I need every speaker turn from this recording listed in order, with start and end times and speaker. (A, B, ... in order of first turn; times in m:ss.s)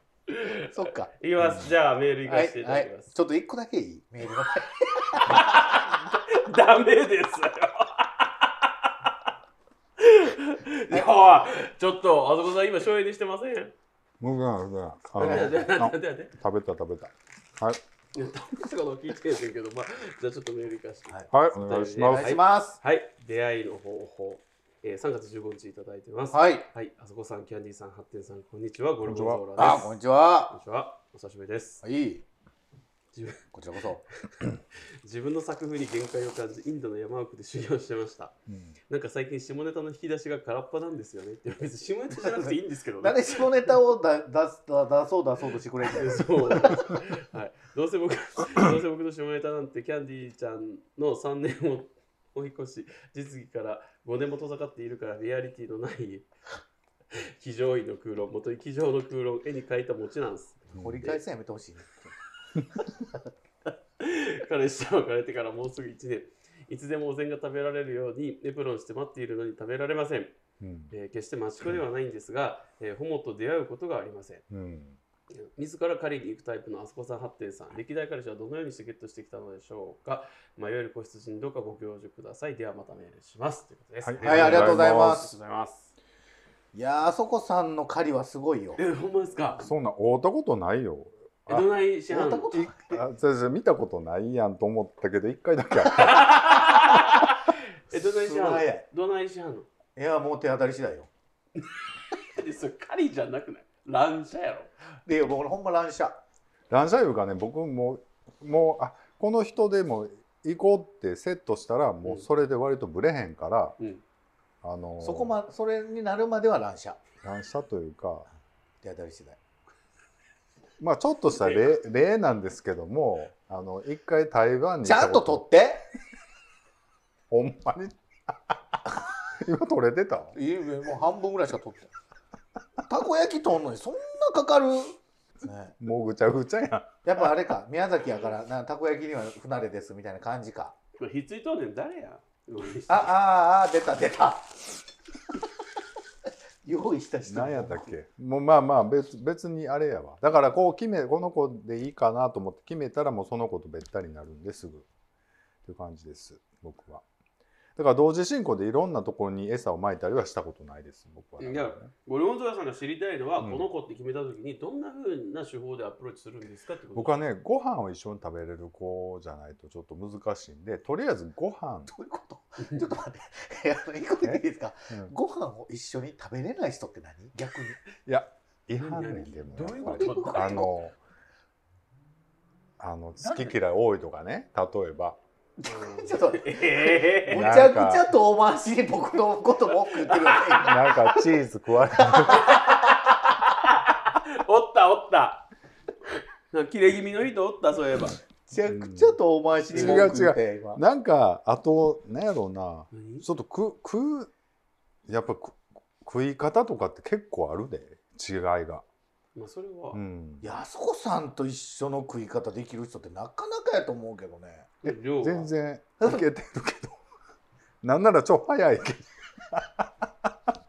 0:00.3-0:03.1 A
0:00.7-0:01.1 B
0:01.4-0:01.7 C
0:02.2-0:05.8 B
0:05.2-0:08.9 A
0:10.0-0:13.7 A
0:14.2-0:17.8 C
0:15.2-0:16.3 A
0:15.2-0:15.6 B
0:18.2-0:30.0 A
0:21.3-0:22.4 C
0:22.0-0:22.8 B
0:26.3-0:26.7 B
0:29.0-0:29.8 C
0:29.6-0:30.6 B
0:30.5-0:31.8 A
0:31.8-0:32.2 B
0:33.1-0:33.4 A
0:33.5-0:34.0 B
0:35.0-0:38.4 A
0:38.5-0:38.8 C
0:38.9-0:43.7 A
0:42.2-0:46.9 B
0:45.9-0:56.3 A
0:57.1-1:01.2 A
1:00.7-1:01.0 C
1:00.8-1:02.1 B
1:04.0-1:10.4 A
1:10.6-1:10.9 C
1:10.9-1:14.4 A
1:14.5-1:15.0 C
1:15.3-1:25.9 A
1:24.0-1:25.3 C
1:24.2-1:25.3 B
1:26.7-1:28.8 B
1:28.8-1:29.7 A
1:29.6-1:31.7 C
1:31.5-1:32.6 A
1:32.1-1:33.0 B
1:32.5-1:36.5 C
1:35.9-1:39.7 A
1:37.9-1:38.8 B
1:40.0-1:41.1 B
1:42.2-1:44.7 A
1:45.1-1:46.2 B
1:46.7-1:53.8 C
1:54.6-1:55.4 C
1:55.0-1:57.0 B
1:57.2-1:58.3 C
1:58.8-1:59.4 B
2:00.8-2:05.4 C
2:01.4-2:01.7 A
2:04.8-2:05.8 B
2:07.3-2:10.4 C
2:10.3-2:11.9 B
2:12.8-2:15.8 B
2:15.8-2:17.3 C
2:17.0-2:20.8 B
2:21.0-2:23.2 A
2:22.9-2:24.6 B
2:26.6-2:27.9 B
2:27.3-2:34.9 C
2:35.6-2:37.0 C
2:37.8-2:41.9 C
2:41.4-2:47.2 A
2:43.4-2:43.7 C
2:47.0-2:51.9 C
2:51.9-2:57.8 B
2:54.2-2:55.1 C
2:58.0-3:01.0 C
2:58.8-3:00.7 A
2:59.8-3:00.7 B
3:02.8-3:05.2 C
3:03.2-3:03.6 A
3:05.6-3:11.0 B
3:05.6-3:07.6 A
3:07.3-3:08.1 C
3:10.0-3:10.6 A
3:10.5-3:12.6 C
3:12.0-3:12.6 B
3:12.3-3:15.5 A
3:16.5-3:18.2 A
3:18.5-3:20.8 B
3:18.7-3:19.2 C
3:19.7-3:24.3 C
3:19.7-3:20.1 A
3:22.9-3:23.3 A
3:25.1-3:28.8 C
3:29.4-3:30.0 A
3:29.9-3:30.5 C
3:30.4-3:34.8 B
3:34.8-3:35.5 A
3:34.9-3:37.0 C
3:37.8-3:40.3 C